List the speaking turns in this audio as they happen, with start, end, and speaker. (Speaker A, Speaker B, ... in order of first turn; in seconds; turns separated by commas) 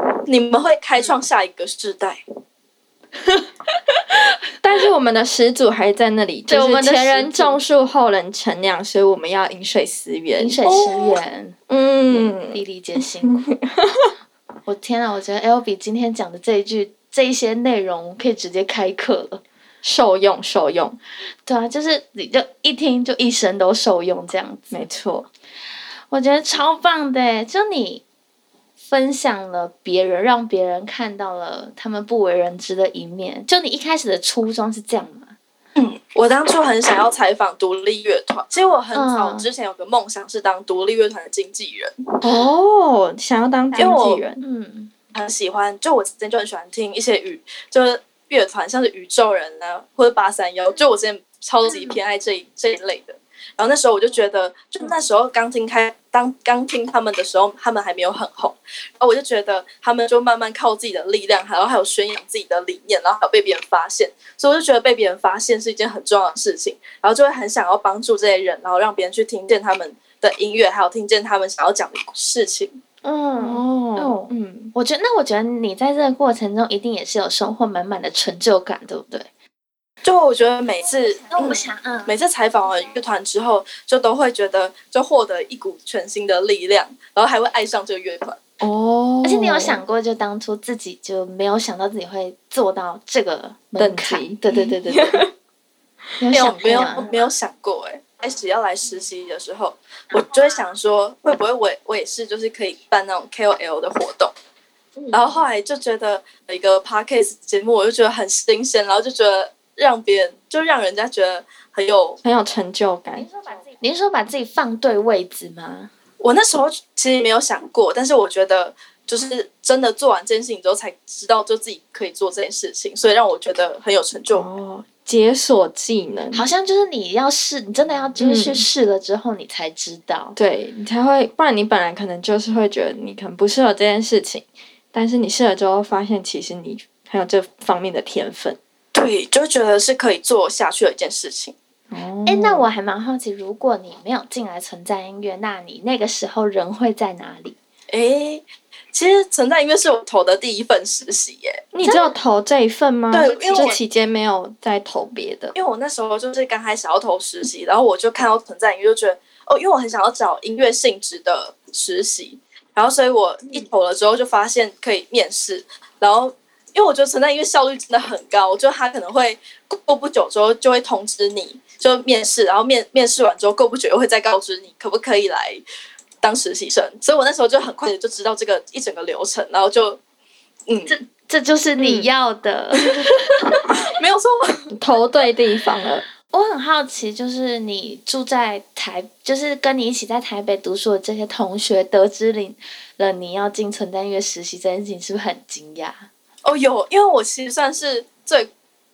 Speaker A: 0.3-2.2, Speaker B: 4.6-10.9, Speaker C: 6.5-7.6, Speaker C: 10.4-11.6, Speaker A: 10.7-11.2, Speaker B: 11.7-12.6, Speaker C: 12.1-13.4, Speaker B: 13.2-14.1, Speaker C: 14.7-19.4, Speaker B: 19.8-21.0, Speaker C: 21.5-24.7, Speaker B: 24.7-25.3, Speaker C: 26.1-28.0, Speaker C: 28.8-35.4, Speaker A: 35.8-42.2, Speaker C: 38.9-39.5, Speaker B: 42.2-44.4, Speaker A: 43.8-44.2, Speaker C: 44.4-44.9, Speaker A: 45.1-72.8, Speaker C: 51.7-51.9, Speaker C: 73.0-79.3, Speaker B: 73.4-74.7, Speaker A: 80.0-88.4, Speaker C: 81.3-82.1, Speaker B: 88.6-89.8, Speaker C: 89.2-95.3, Speaker B: 93.8-95.3, Speaker C: 96.2-97.1, Speaker A: 96.3-104.3, Speaker A: 105.1-112.2, Speaker B: 112.2-113.3, Speaker C: 113.2-115.9, Speaker A: 116.2-124.5, Speaker B: 124.3-126.5, Speaker C: 126.3-130.4, Speaker B: 128.2-128.7, Speaker B: 130.4-138.6, Speaker A: 138.9-141.6, Speaker B: 141.9-142.7, Speaker C: 142.3-147.6, Speaker A: 147.9-151.6, Speaker B: 151.7-155.6, Speaker C: 151.8-152.1, Speaker A: 153.1-153.8, Speaker C: 153.2-153.8, Speaker A: 155.6-175.6, Speaker A: 176.2-180.0, Speaker A: 180.7-180.9, Speaker C: 180.9-183.2, Speaker B: 181.8-182.1, Speaker A: 183.4-184.7, Speaker B: 184.7-186.0, Speaker C: 186.3-196.1, Speaker A: 196.4-198.5